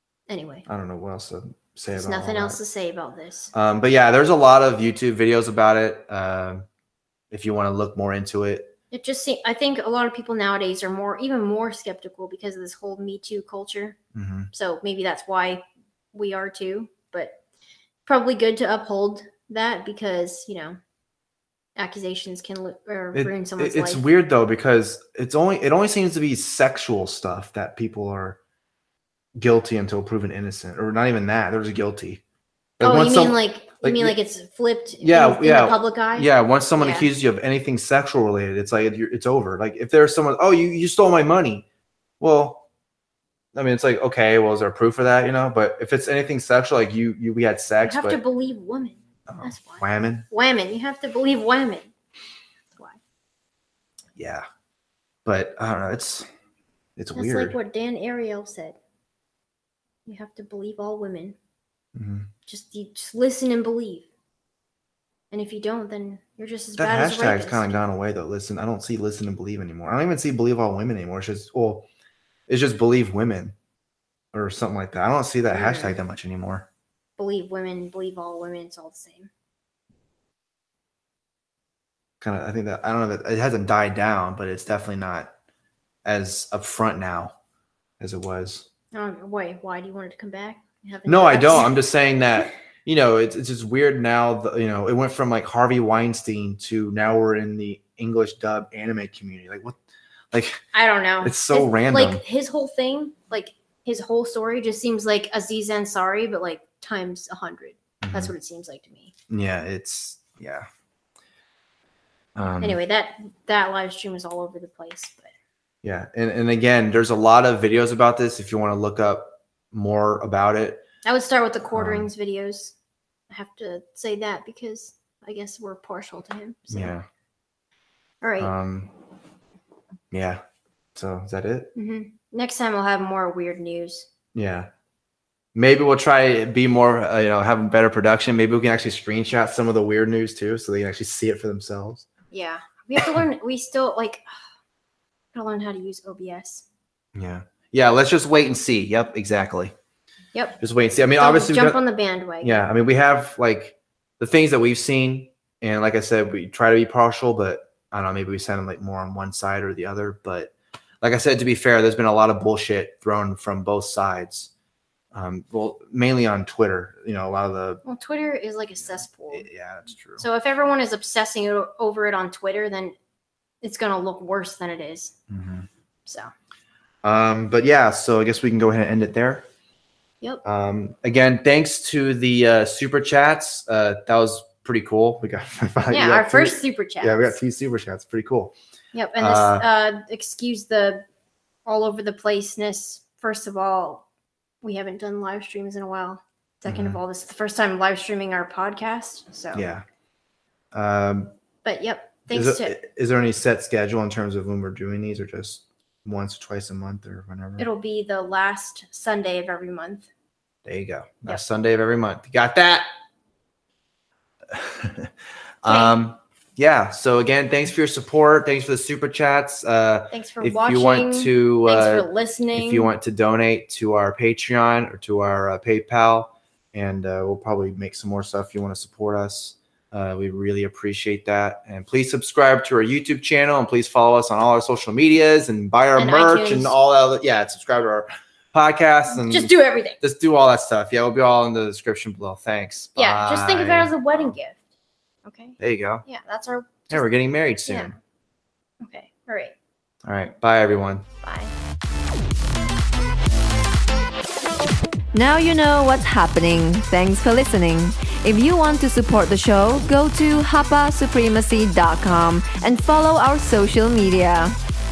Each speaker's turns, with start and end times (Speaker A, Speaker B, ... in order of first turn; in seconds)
Speaker A: 0.3-0.7, 1.9-3.5, 8.9-14.0, 14.5-17.4, 18.1-20.8, 21.8-24.0, 32.8-37.1, 47.8-51.9, 57.1-58.8, 60.1-61.4, 62.5-64.1, 65.3-67.8, 75.5-76.0, 77.2-79.3, 88.9-91.7, 100.7-109.1, 112.6-115.3, 121.0-122.8, 123.3-126.9, 128.2-128.5, 131.8-134.1, 142.3-144.2, 145.3-146.7, 150.3-150.6, 151.2-152.6, 167.8-169.5, 170.2-172.9, 173.6-175.2, 176.1-176.3, 185.9-187.4, 188.9-191.0, 191.7-194.1, 194.6-199.7, 201.6-202.8, 207.6-210.1, 215.7-216.0, 220.1-222.9, 236.0-236.8, 239.1-240.0, 243.0-244.6, 245.2-247.1, 247.7-247.9, 248.8-249.5, 251.2-251.5
Speaker B: 0.7-2.6, 3.5-6.7, 7.3-8.7, 14.1-14.5, 23.1-28.4, 29.4-32.2, 32.8-34.2, 35.0-41.6, 42.2-42.6, 43.5-48.2, 49.3-50.3, 54.2-54.5, 55.2-56.3, 57.0-57.6, 62.0-62.3, 66.8-71.9, 72.5-73.6, 74.3-76.7, 82.2-85.3, 86.0-87.3, 88.0-88.7, 91.1-99.8, 100.3-100.6, 101.2-102.2, 108.0-108.3, 109.3-110.7, 112.4-112.8, 115.8-120.8, 121.7-122.1, 126.7-127.1, 128.4-128.9, 130.1-130.4, 130.9-131.7, 134.3-134.7, 135.6-142.1, 147.2-149.7, 150.6-151.8, 152.4-164.5, 165.1-167.8, 168.8-170.2, 175.3-175.7, 177.0-179.5, 180.4-188.5, 189.2-189.7, 196.7-197.0, 199.5-199.8, 200.7-201.3, 202.3-207.7, 210.7-212.9, 214.5-215.1, 215.6-244.4, 245.6-246.1, 246.9-248.0, 250.0-251.1
Speaker C: 255.1-264.6